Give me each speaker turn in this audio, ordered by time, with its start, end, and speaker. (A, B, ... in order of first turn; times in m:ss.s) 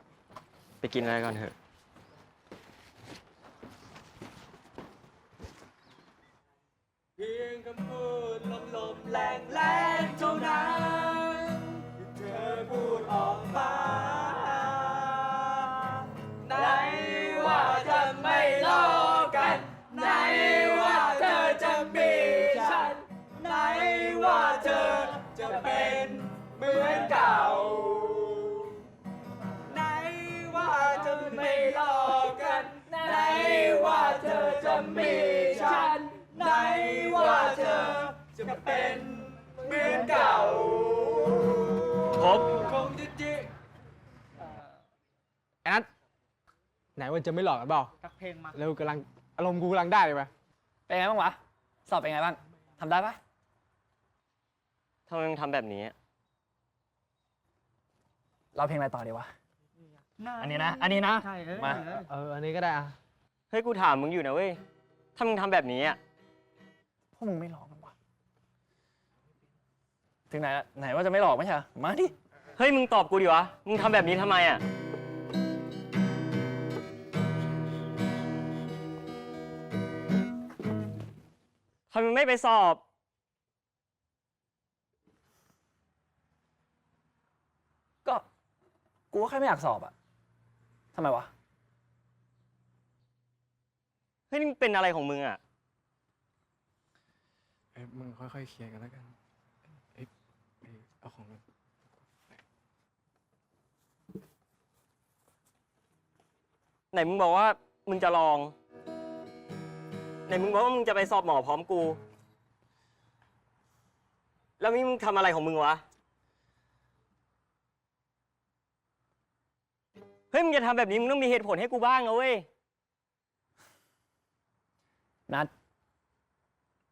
0:00.8-0:01.6 A
0:07.2-0:15.8 B
0:16.4-0:28.6 B
0:29.7-0:43.5 B
0:42.2-0:42.6 A
0:47.0-0:47.9 C
0:48.0-0:48.5 B
0:48.5-0:50.3 C
0:50.9-0:53.2 D
0:55.1-0:56.0 A
0:58.6-0:59.3 D
1:00.2-1:00.7 B
1:00.4-1:01.9 D
1:01.2-1:01.9 B
1:02.0-1:03.0 C
1:03.5-1:04.6 A
1:05.2-1:06.0 A
1:07.2-1:07.9 D
1:10.3-1:12.1 D
1:12.6-1:14.6 A
1:21.9-1:22.8 A
1:29.1-1:29.9 D
1:30.9-1:31.3 D
1:34.3-1:35.4 A
1:37.7-1:39.1 C
1:40.6-1:41.4 C
1:46.9-1:48.5 A
1:50.3-1:52.0 A
1:54.6-1:55.8 A
2:00.3-2:02.5 A